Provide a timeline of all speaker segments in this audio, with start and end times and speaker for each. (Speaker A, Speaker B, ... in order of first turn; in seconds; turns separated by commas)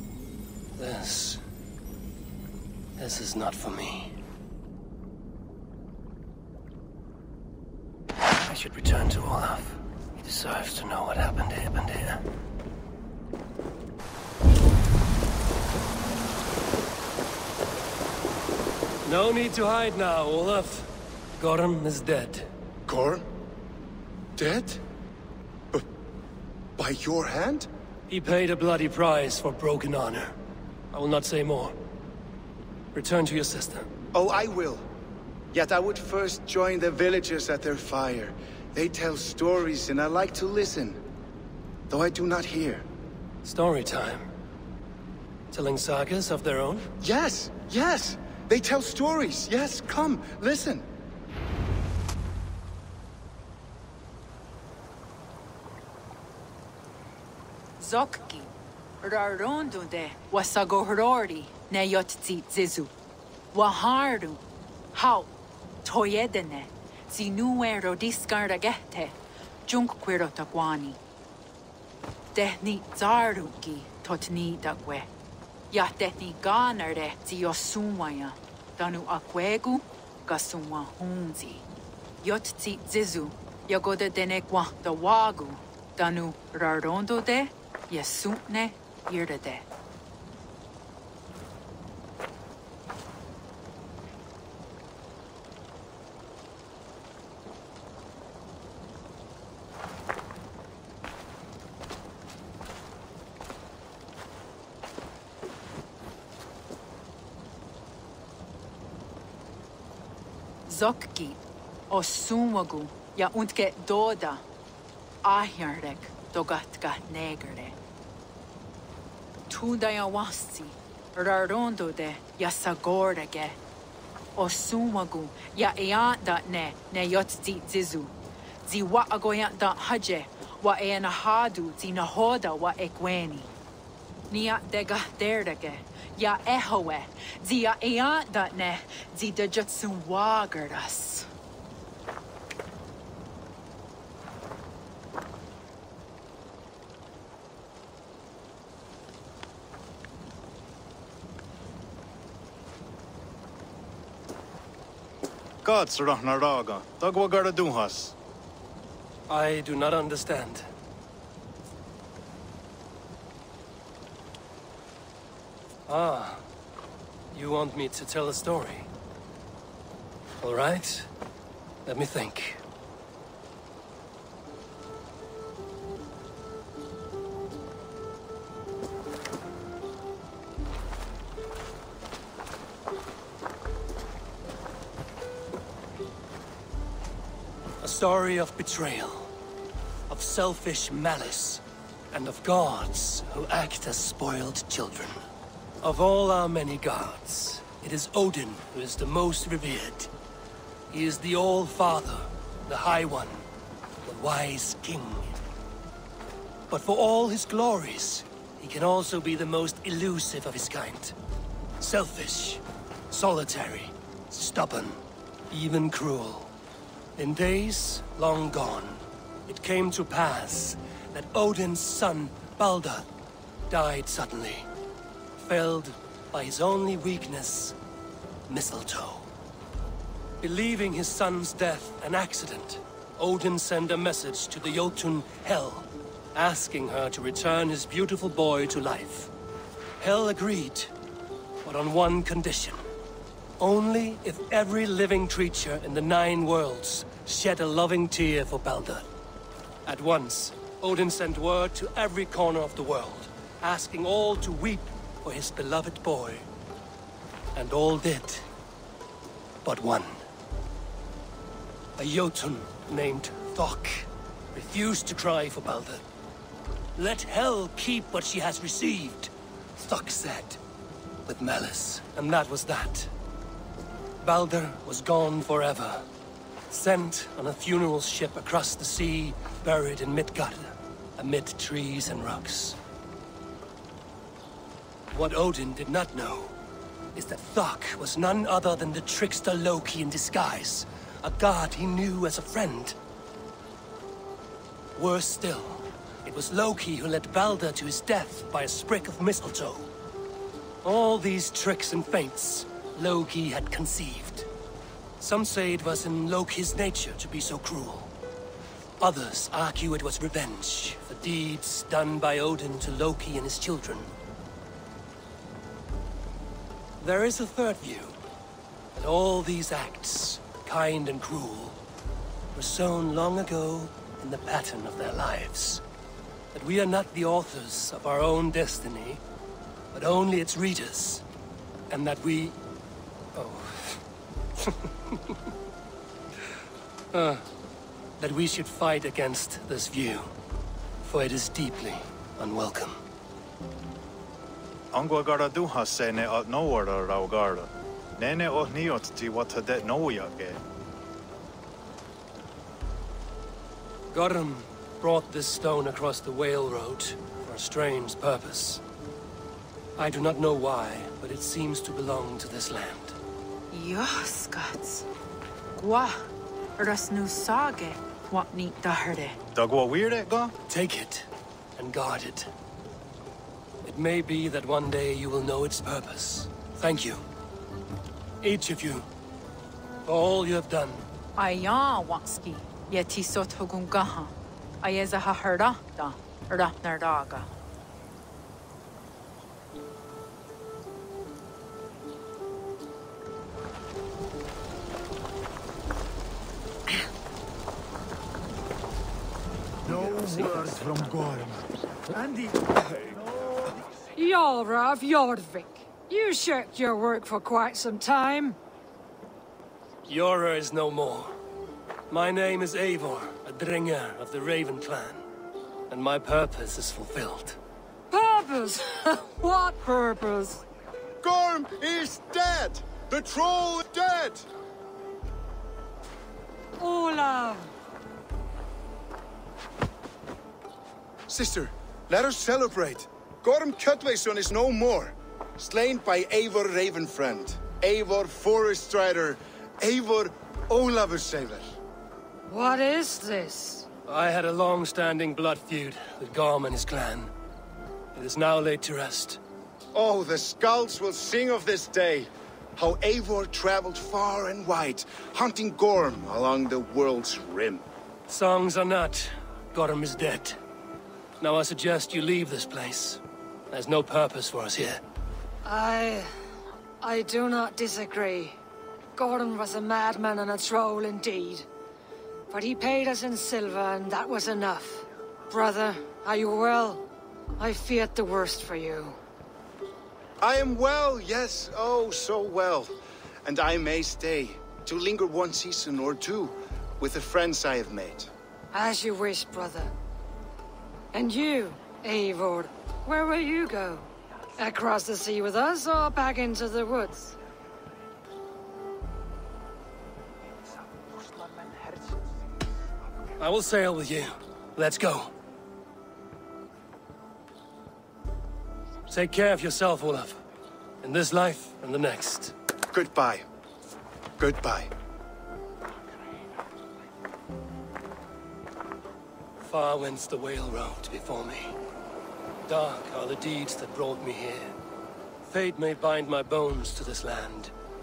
Speaker A: 0.8-1.4, Speaker A: 3.0-4.1, Speaker A: 8.4-12.2, Speaker A: 19.0-22.5, Speaker B: 22.9-23.2, Speaker B: 24.4-24.8, Speaker B: 26.8-27.7, Speaker A: 28.1-30.3, Speaker A: 30.9-31.8, Speaker A: 32.9-33.9, Speaker B: 34.1-34.8, Speaker B: 35.5-41.0, Speaker B: 41.9-42.9, Speaker A: 43.4-44.2, Speaker A: 45.5-46.9, Speaker B: 47.0-50.9, Speaker C: 57.8-62.9, Speaker C: 63.5-64.4, Speaker C: 64.9-65.3, Speaker C: 65.8-71.0, Speaker C: 72.3-75.1, Speaker C: 75.7-81.7, Speaker C: 82.2-89.7, Speaker C: 110.7-114.4, Speaker C: 115.2-117.8, Speaker C: 119.5-123.6, Speaker C: 124.4-128.1, Speaker C: 128.7-133.5, Speaker C: 134.3-141.3, Speaker D: 155.6-158.2, Speaker A: 159.3-160.7, Speaker A: 165.9-166.4, Speaker A: 167.3-168.9, Speaker A: 170.4-171.1, Speaker A: 171.9-172.6, Speaker A: 187.8-189.3, Speaker A: 190.1-195.2, Speaker A: 195.8-200.1, Speaker A: 200.9-203.5, Speaker A: 204.1-205.4, Speaker A: 206.7-211.2, Speaker A: 211.8-216.5, Speaker A: 217.2-223.1, Speaker A: 223.7-224.7, Speaker A: 225.4-227.8, Speaker A: 228.5-229.3, Speaker A: 230.4-239.3, Speaker A: 240.0-240.9, Speaker A: 241.6-242.8, Speaker A: 243.6-249.1, Speaker A: 249.8-256.5, Speaker A: 257.6-258.5, Speaker A: 259.6-260.2, Speaker A: 262.0-266.0, Speaker A: 267.0-270.6, Speaker A: 271.3-273.1, Speaker A: 274.2-276.1, Speaker A: 276.7-282.8, Speaker A: 285.1-286.6, Speaker A: 287.1-293.0, Speaker A: 294.9-299.9, Speaker A: 300.8-304.5, Speaker A: 305.2-308.1, Speaker A: 309.0-314.1, Speaker A: 317.0-318.2, Speaker A: 318.9-321.8, Speaker A: 322.5-325.8, Speaker A: 326.5-329.2, Speaker A: 329.9-331.2, Speaker A: 331.9-332.6, Speaker A: 333.4-334.0, Speaker A: 334.6-335.4, Speaker A: 337.1-337.4, Speaker A: 338.2-340.3, Speaker A: 341.0-343.0, Speaker D: 344.9-350.6, Speaker A: 354.1-358.8, Speaker A: 360.0-363.2, Speaker C: 363.7-365.1, Speaker C: 365.8-366.3, Speaker C: 366.8-369.4, Speaker D: 369.5-370.6, Speaker A: 370.7-372.5, Speaker A: 373.9-377.2, Speaker A: 378.4-379.1, Speaker A: 380.1-381.1, Speaker C: 381.4-387.5, Speaker B: 399.9-401.6, Speaker A: 400.2-400.7, Speaker E: 404.2-408.6, Speaker A: 410.1-411.3, Speaker A: 412.1-415.2, Speaker A: 415.9-417.6, Speaker E: 418.1-420.6, Speaker B: 421.2-424.5, Speaker E: 426.8-427.7, Speaker B: 431.3-441.8, Speaker E: 442.5-443.9, Speaker A: 444.1-447.3, Speaker A: 448.1-449.4, Speaker B: 449.9-457.8, Speaker A: 458.3-460.6, Speaker A: 461.4-465.0, Speaker E: 465.6-466.3, Speaker E: 467.0-468.6, Speaker E: 469.2-471.7, Speaker E: 472.5-477.0, Speaker E: 477.6-479.2, Speaker B: 480.4-488.3, Speaker E: 488.7-489.9, Speaker E: 491.1-497.4, Speaker A: 503.4-505.3, Speaker A: 509.1-510.4, Speaker A: 511.0-512.5, Speaker B: 512.9-513.4, Speaker B: 514.4-514.9, Speaker A: 519.6-521.8, Speaker A: 522.7-524.8, Speaker A: 525.4-527.7